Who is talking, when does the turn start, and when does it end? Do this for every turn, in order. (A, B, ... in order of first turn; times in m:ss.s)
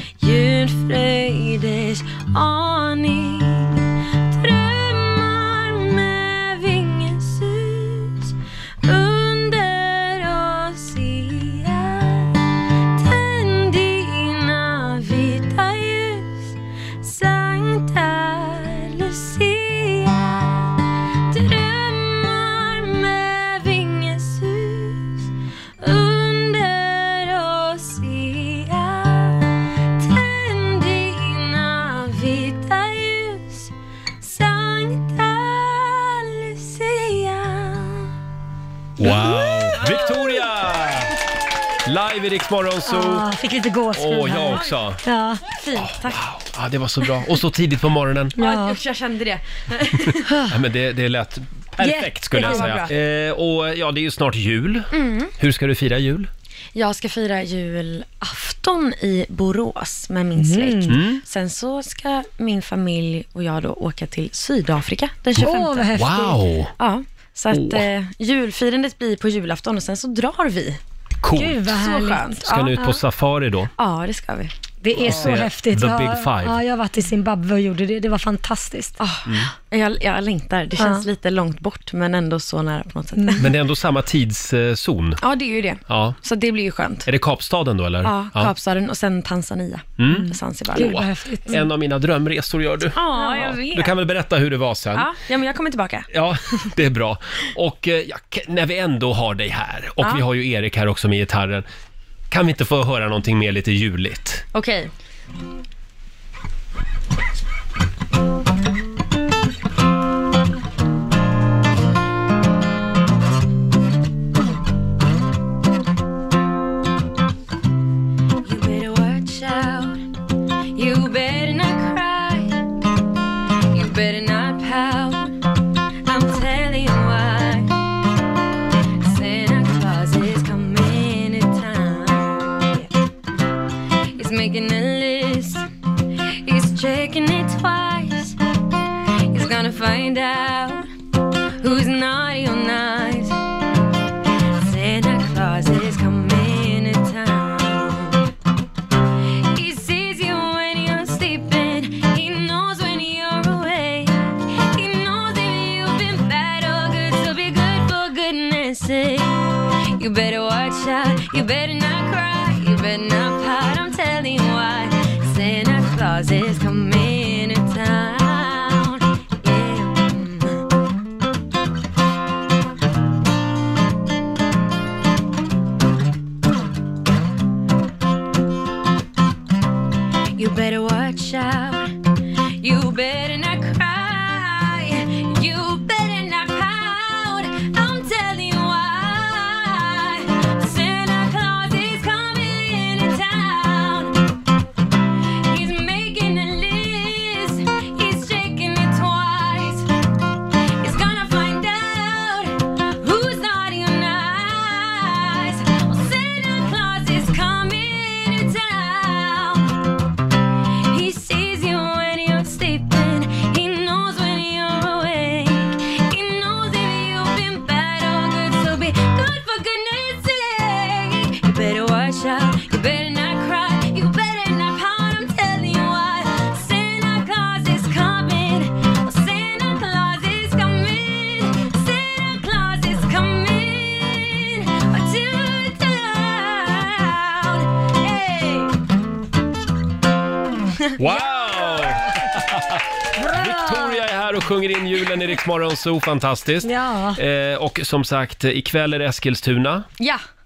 0:00.2-0:38.1 A
0:39.0-0:41.2 B
0:39.0-0:40.0 C
0:41.8-0:43.3 B
0:42.8-0:45.4 C
0:43.9-0:45.0 B
0:45.5-0:46.2 A
0:45.8-0:48.4 B
0:48.4-0:48.8 C
0:48.4-0:50.3 A
0:50.3-0:50.6 C
0:50.5-0:56.3 B
0:51.8-0:52.8 C
0:52.4-0:52.9 A
0:54.9-0:55.3 A
0:56.7-1:06.0 A
1:00.4-1:01.0 C
1:00.9-1:01.2 B
1:05.4-1:06.4 C
1:05.9-1:06.7 B
1:06.8-1:10.8 A
1:07.5-1:07.8 B
1:11.2-1:11.6 B
1:11.3-1:13.0 C
1:11.7-1:12.8 A
1:12.4-1:13.7 B
1:13.8-1:14.5 A
1:14.8-1:19.0 C
1:15.0-1:16.6 B
1:19.0-1:23.5 A
1:19.2-1:19.5 B
1:20.8-1:21.0 C
1:23.2-1:23.4 C
1:23.4-1:25.2 B
1:25.2-1:27.1 A
1:25.9-1:26.2 B
1:27.0-1:28.5 B
1:28.0-1:31.7 A
1:30.0-1:35.1 B
1:30.7-1:31.6 C
1:32.9-1:33.9 A
1:34.9-1:36.1 A
1:36.1-1:41.6 B
1:42.3-1:44.4 B
1:44.5-1:44.9 A
1:58.4-2:00.0 A
2:00.7-2:02.7 A
2:03.7-2:05.4 A
2:06.0-2:07.8 A
2:09.0-2:12.9 A
2:14.1-2:18.4 A
2:19.3-2:20.9 A
2:21.6-2:23.4 A
2:24.5-2:28.3 A
2:29.3-2:50.6 A
3:00.4-3:02.0 A
3:02.6-3:14.4 A
3:15.5-3:19.9 A
3:20.8-3:30.0 A
3:30.9-3:58.8 A
4:00.8-4:01.9 A
4:01.0-4:09.8 B
4:03.1-4:04.1 C
4:06.6-4:07.2 C